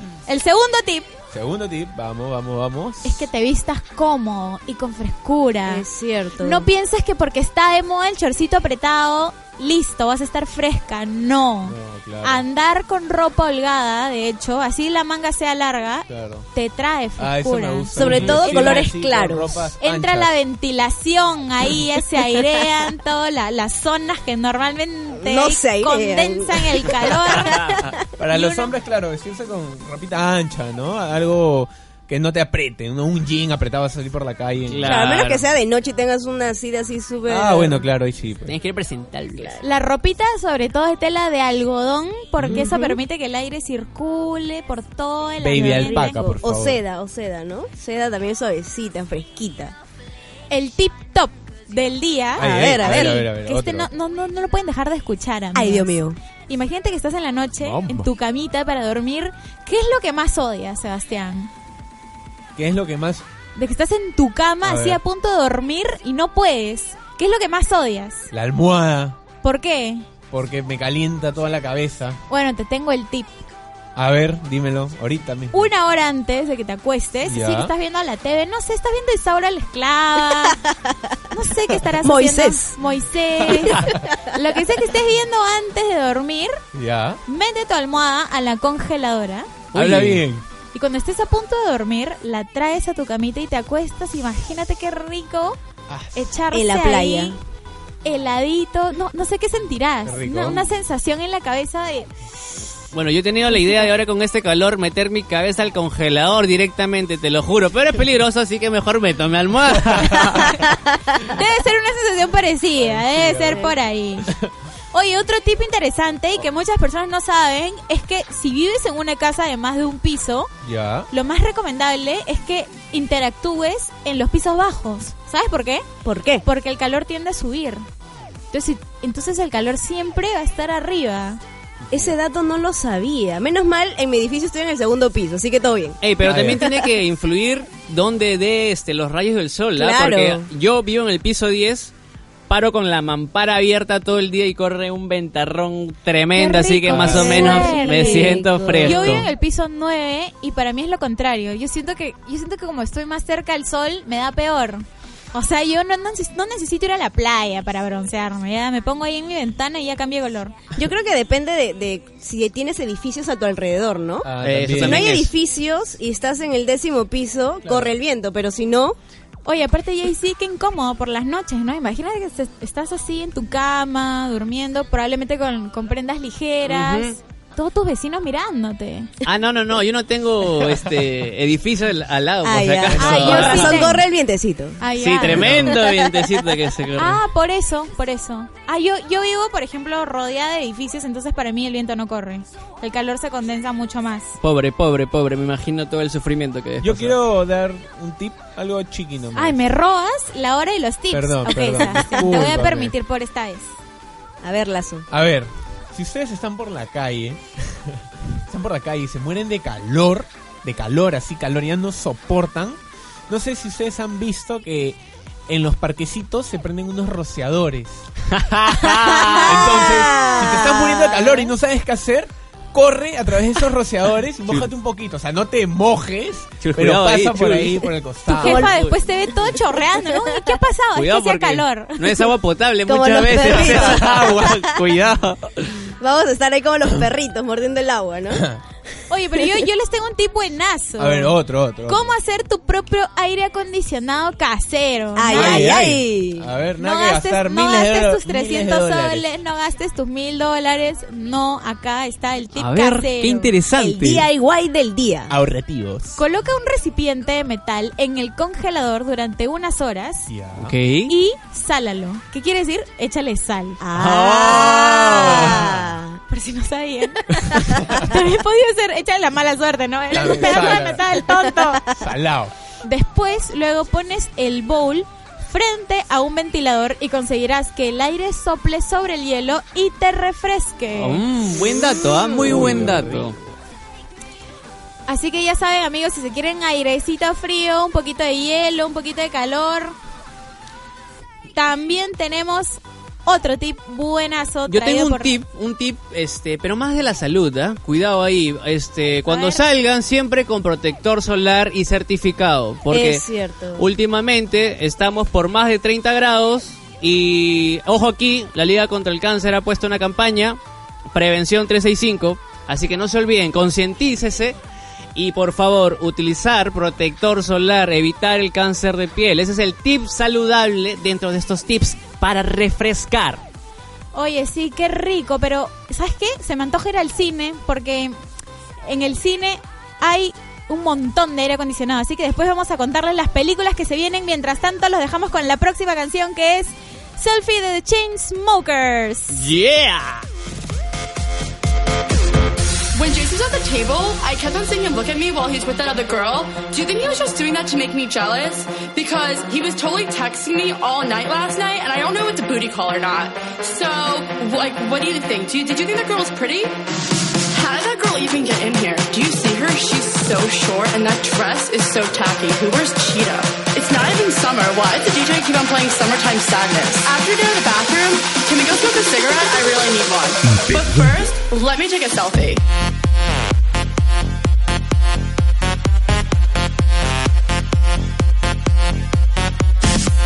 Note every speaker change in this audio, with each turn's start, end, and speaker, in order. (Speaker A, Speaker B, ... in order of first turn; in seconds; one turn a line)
Speaker A: 0.3-1.1
Speaker B: 1.3-3.3
Speaker A: 3.0-5.8
Speaker C: 5.7-6.7
Speaker A: 6.4-18.0
Speaker B: 11.6-12.4
Speaker B: 16.1-16.5
Speaker B: 17.2-20.4
Speaker C: 17.9-19.7
Speaker D: 18.0-18.7
Speaker A: 19.8-27.7
Speaker C: 25.1-27.9
Speaker D: 27.4-27.9
Speaker B: 28.2-35.1
Speaker A: 28.3-28.7
Speaker D: 34.7-35.5
Speaker C: 34.8-37.9
Speaker B: 37.3-38.6
Speaker D: 38.5-39.6
Speaker C: 39.4-39.6
Speaker A: 39.6-46.3
Speaker B: 42.4-42.6
Speaker C: 42.5-43.0
Speaker B: 45.4-46.8
Speaker C: 45.6-49.8
Speaker A: 50.5-61.5
Speaker B: 52.4-53.9
Speaker C: 52.4-53.2
Speaker C: 55.5-56.2
Speaker B: 57.6-58.1
Speaker B: 62.5-63.2
Speaker A: 63.6-68.3
Speaker B: 64.6-65.0
Speaker B: 68.3-69.2
Speaker A: 69.4-70.1
Speaker B: 70.3-72.2
Speaker A: 72.3-73.3
Speaker B: 74.0-75.7
Speaker A: 75.5-80.6
Speaker B: 77.2-77.7
Speaker C: 80.3-81.2
Speaker A: 81.3-86.6
Speaker C: 82.0-82.8
Speaker B: 83.5-84.1
Speaker B: 86.7-87.2
Speaker A: 87.3-89.5
Speaker D: 89.7-90.2
Speaker B: 89.7-90.5
Speaker A: 90.7-95.6
Speaker B: 95.9-96.3
Speaker A: 96.1-97.4
Speaker C: 96.5-97.4
Speaker A: 98.0-102.1
Speaker B: 100.0-100.7
Speaker D: 102.9-110.7
Speaker B: 109.9-110.5
Speaker A: 111.2-114.3
Speaker B: 112.8-114.5
Speaker A: 114.9-120.5
Speaker B: 120.6-121.1
Speaker A: 121.1-125.9
Speaker C: 126.0-126.4
Speaker A: 126.4-127.8
Speaker A: 128.5-131.4
Speaker B: 131.8-132.2
Speaker C: 131.9-136.9
Speaker D: 136.0-141.9
Speaker B: 136.2-136.6
Speaker C: 139.8-140.5
Speaker D: 142.5-149.3
Speaker A: 146.4-160.6
Speaker B: 146.8-147.7
Speaker C: 147.0-149.3
Speaker C: 160.8-169.0
Speaker B: 164.2-165.1
Speaker D: 164.4-165.3
Speaker B: 167.6-168.0
Speaker A: 169.4-179.1
Speaker D: 176.7-177.2
Speaker D: 179.2-184.0
Speaker B: 180.6-180.9
Speaker C: 182.4-184.8
Speaker B: 182.9-183.7
Speaker A: 183.0-184.1
Speaker A: 184.8-185.5
Speaker D: 185.0-187.2
Speaker B: 185.3-185.8
Speaker C: 185.4-186.5
Speaker A: 187.0-194.4
Speaker D: 194.4-197.2
Speaker B: 196.8-199.6
Speaker A: 199.4-203.7
Speaker B: 201.1-202.9
Speaker C: 202.0-202.5
Speaker C: 204.4-205.1
Speaker B: 205.1-218.1
Speaker D: 218.3-219.9
Speaker C: 218.9-221.4
Speaker B: 219.4-228.7
Speaker D: 226.6-227.9
Speaker A: 228.3-232.3
Speaker C: 228.4-228.7
Speaker D: 228.4-228.9
Speaker C: 229.7-230.4
Speaker D: 230.9-235.8
Speaker C: 232.9-234.6
Speaker B: 233.4-235.2
Speaker C: 236.0-238.4
Speaker B: 238.3-238.6
Speaker A: 239.1-245.8
Speaker B: 241.0-242.1
Speaker C: 245.2-246.5
Speaker B: 245.3-249.3
Speaker A: 246.8-253.5
Speaker D: 252.6-254.3
Speaker C: 253.8-255.3
Speaker B: 255.3-256.2
Speaker A: 256.1-260.3
Speaker B: 260.3-260.8
Speaker D: 260.6-261.1
Speaker A: 261.1-263.8
Speaker C: 263.8-266.1
Speaker B: 264.0-266.0
Speaker D: 264.0-264.6
Speaker A: 266.3-271.8
Speaker B: 267.5-268.1
Speaker C: 267.7-268.0
Speaker B: 270.1-271.2
Speaker C: 270.2-271.8
Speaker B: 271.9-272.5
Speaker A: 272.9-281.2
Speaker D: 280.9-283.4
Speaker B: 281.8-283.4
Speaker A: 285.1-289.9
Speaker A: 291.6-295.4
Speaker D: 294.7-303.2
Speaker A: 299.3-299.6
Speaker C: 302.9-303.9
Speaker D: 303.8-310.6
Speaker D: 311.1-314.6
Speaker D: 315.1-323.4
Speaker A: 324.1-328.1
Speaker A: 328.9-339.5
Speaker D: 339.3-340.3
Speaker E: 342.9-356.8
Speaker E: 357.5-372.6